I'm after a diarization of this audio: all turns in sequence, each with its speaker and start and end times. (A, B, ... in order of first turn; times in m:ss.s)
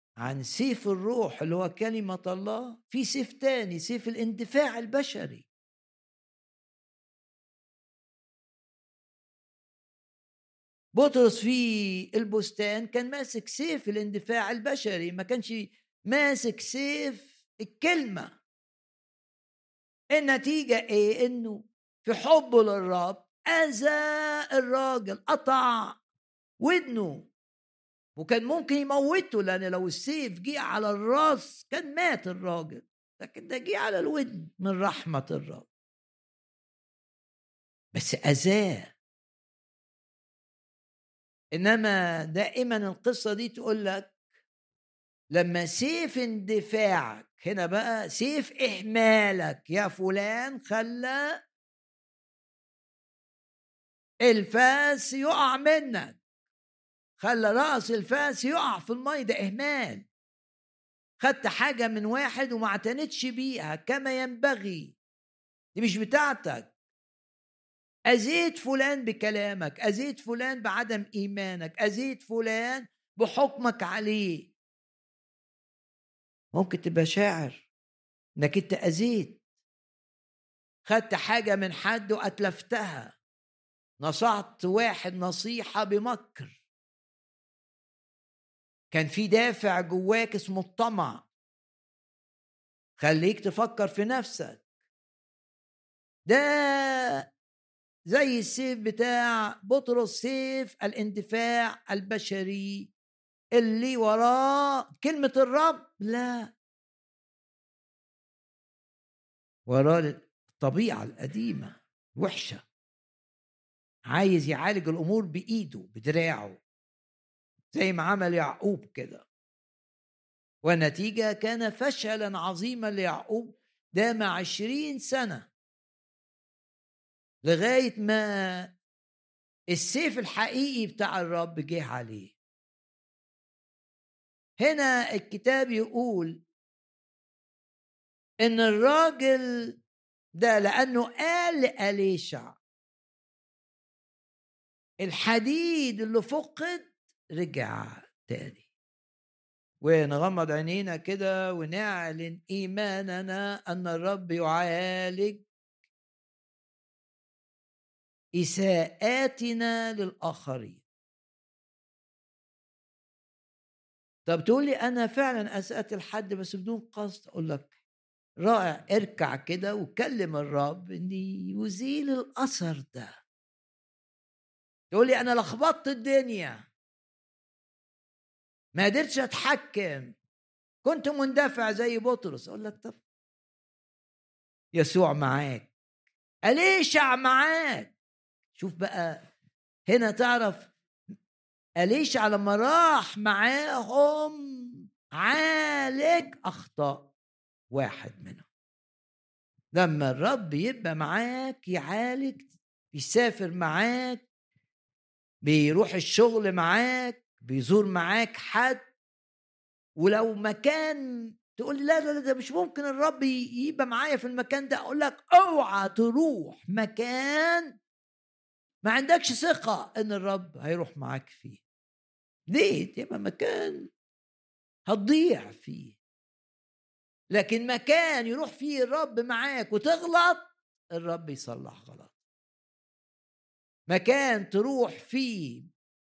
0:00.2-0:05.5 A
0:11.0-0:18.4 A
0:20.1-0:26.0 A
0:26.6-0:27.3 A
0:28.2-0:35.7 A
0:37.9-0:38.9 A
0:41.6-0:44.1 A
0:45.3-0:51.4 A
0:54.3-0:56.2 A
0:57.2-1:00.0 A
1:01.2-1:05.0 A
1:05.8-1:06.7 A
1:08.1-1:14.5 A
1:16.5-1:17.7 A
1:18.4-1:19.4 A
1:20.8-1:23.2 A
1:24.0-1:26.6 A
1:28.9-1:31.2 A
1:33.0-1:34.6 A
1:36.3-1:37.2 A
1:38.1-1:42.9 A
1:43.6-1:46.5 A
1:49.7-1:52.6 A
1:54.1-1:56.6 A
1:57.7-1:59.2 A
2:00.6-2:05.5 A
2:07.4-2:08.7 A
2:09.7-2:12.4 A
2:14.6-2:16.4 A
2:18.4-2:19.8 A
2:20.4-2:22.6 A
2:25.0-2:28.6 A
2:29.8-2:35.4 A
2:38.4-2:40.8 A
2:44.3-2:47.7 A
2:48.4-2:53.1 A
2:54.9-2:56.6 A
2:58.8-3:00.1 A
3:00.8-3:03.0 A
3:04.8-3:05.7 A
3:06.5-3:07.9 A
3:08.6-3:09.2 A
3:09.9-3:10.7 A
3:11.8-3:14.4 A
3:15.2-3:17.1 A
3:17.7-3:18.4 A
3:19.7-3:24.2 A
3:25.4-3:28.8 A
3:30.0-3:37.7 A
3:38.8-3:41.6 A
3:42.5-3:43.9 A
3:44.9-3:46.0 A
3:47.3-3:52.1 A
3:53.9-3:55.7 A